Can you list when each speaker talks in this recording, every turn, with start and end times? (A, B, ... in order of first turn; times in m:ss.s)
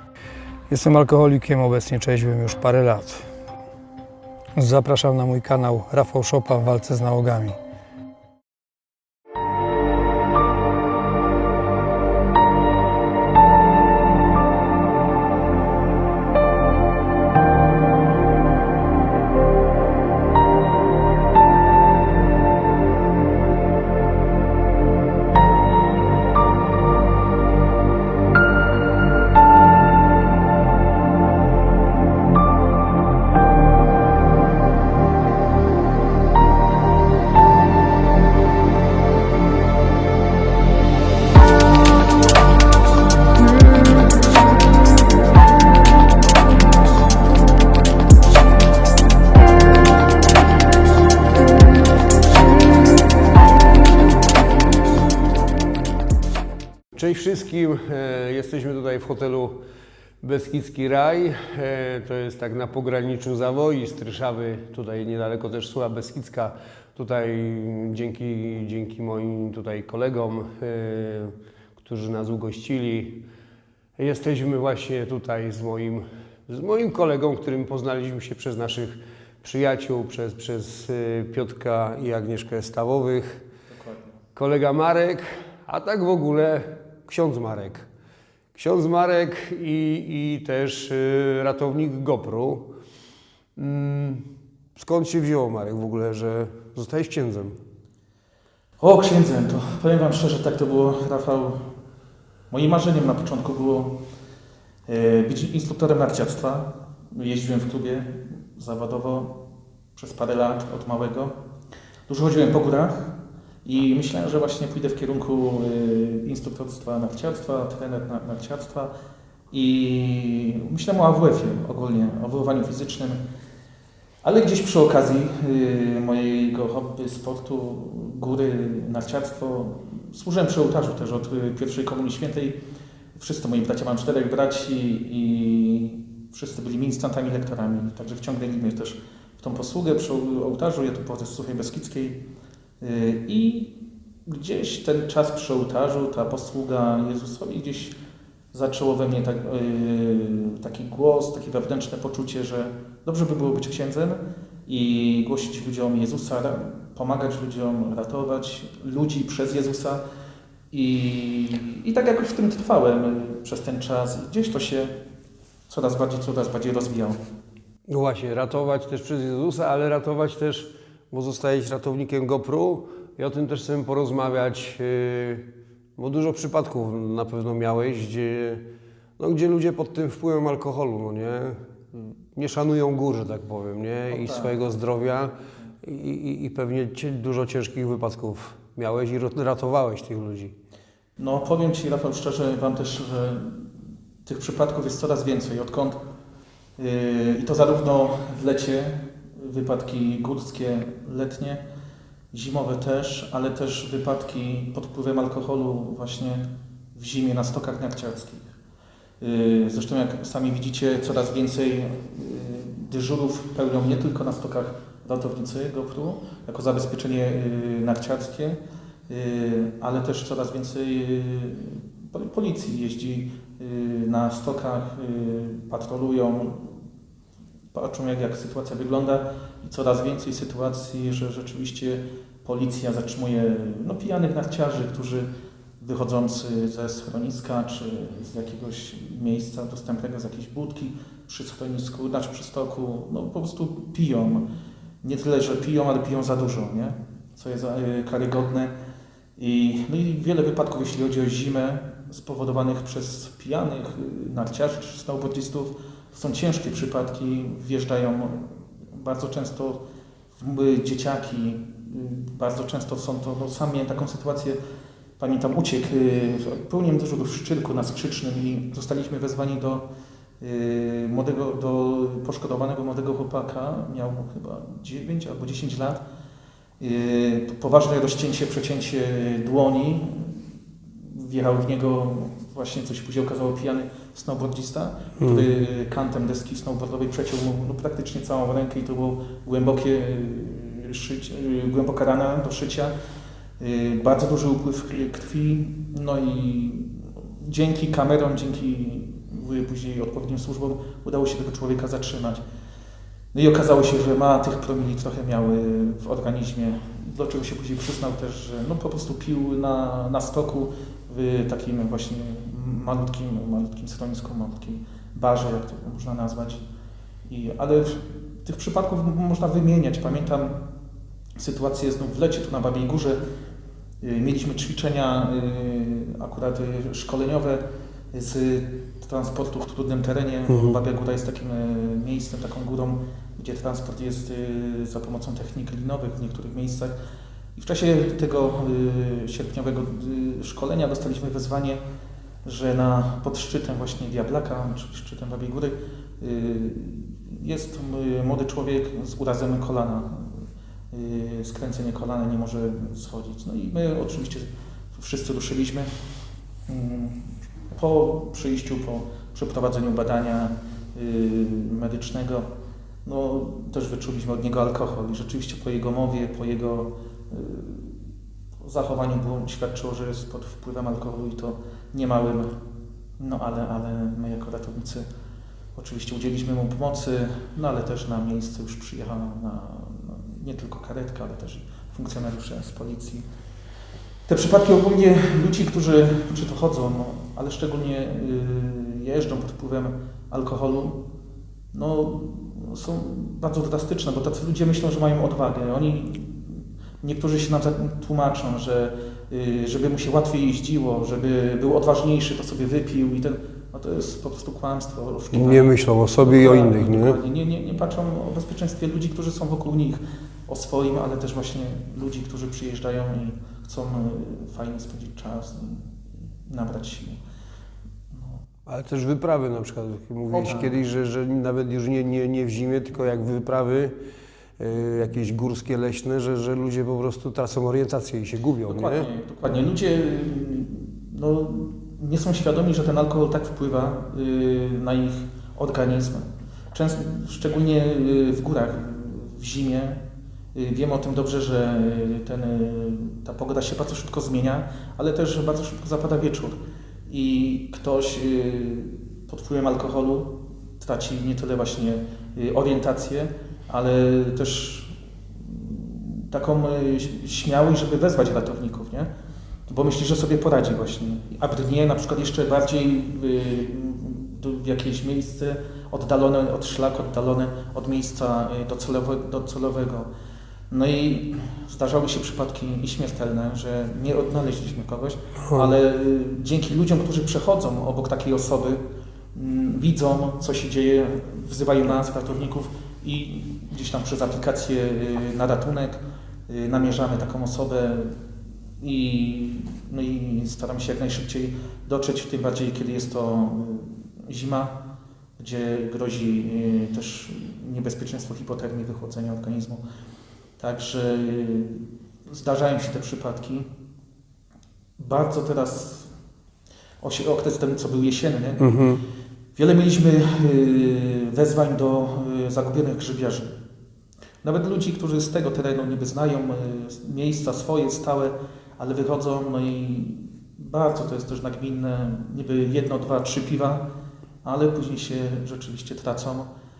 0:01.1-0:01.4 A
0:02.2-0:03.1 A
0:04.6-0:07.6 B
0:56.9-0:59.6 A
1:00.2-1:13.2 A
1:14.0-1:23.4 A
1:23.7-1:24.1 C
1:24.3-1:27.9 A
1:28.5-1:32.7 A
1:33.6-1:37.6 A
1:38.8-1:41.6 C
1:42.5-1:44.0 C
1:44.9-1:49.4 C
1:50.0-1:51.4 C
1:52.1-1:58.9 C
1:59.5-2:03.2 C
2:04.2-2:12.6 C
2:13.2-2:22.2 C
2:22.8-2:23.7 C
2:24.3-2:28.0 C
2:28.5-2:40.0 C
2:40.7-2:45.0 C
2:45.7-2:47.2 C
2:47.9-2:58.6 A
2:59.2-3:10.6 A
3:04.1-3:04.5 C
3:11.2-3:13.6 C
3:14.2-3:16.0 C
3:16.8-3:21.6 C
3:22.3-3:28.5 C
3:29.2-3:46.8 C
3:47.7-3:55.3 C
3:55.8-4:04.4 C
4:05.0-4:08.7 C
4:09.4-4:19.8 C
4:20.4-4:24.6 C
4:25.2-4:29.8 C
4:30.4-4:36.0 C
4:36.8-4:40.4 C
4:41.0-4:52.9 C
4:45.2-4:45.4 A
4:53.6-5:02.4 C
5:03.3-5:16.6 C
5:17.3-5:20.6 C
5:21.4-5:23.2 C
5:24.0-5:36.9 C
5:30.5-5:30.7 A
5:37.6-5:41.8 C
5:42.4-5:55.9 C
5:56.7-6:02.5 C
6:03.0-6:08.0 C
6:08.6-6:12.5 C
6:13.2-6:15.0 C
6:15.7-6:23.2 C
6:24.3-6:31.0 C
6:31.7-6:57.2 C
6:45.3-6:47.2 A
6:58.1-6:58.4 C
6:58.6-7:03.9 A
7:00.3-7:00.8 C
7:04.6-7:09.1 A
7:08.7-7:20.0 C
7:20.5-7:39.1 C
7:39.7-7:50.1 C
7:50.7-7:58.8 C
7:59.3-8:08.2 C
8:08.8-8:14.8 C
8:15.4-8:19.8 C
8:20.6-8:23.7 C
8:25.0-8:26.1 C
8:27.0-8:28.8 C
8:28.6-8:29.0 A
8:29.6-8:33.5 C
8:34.4-8:43.8 C
8:44.4-8:46.5 C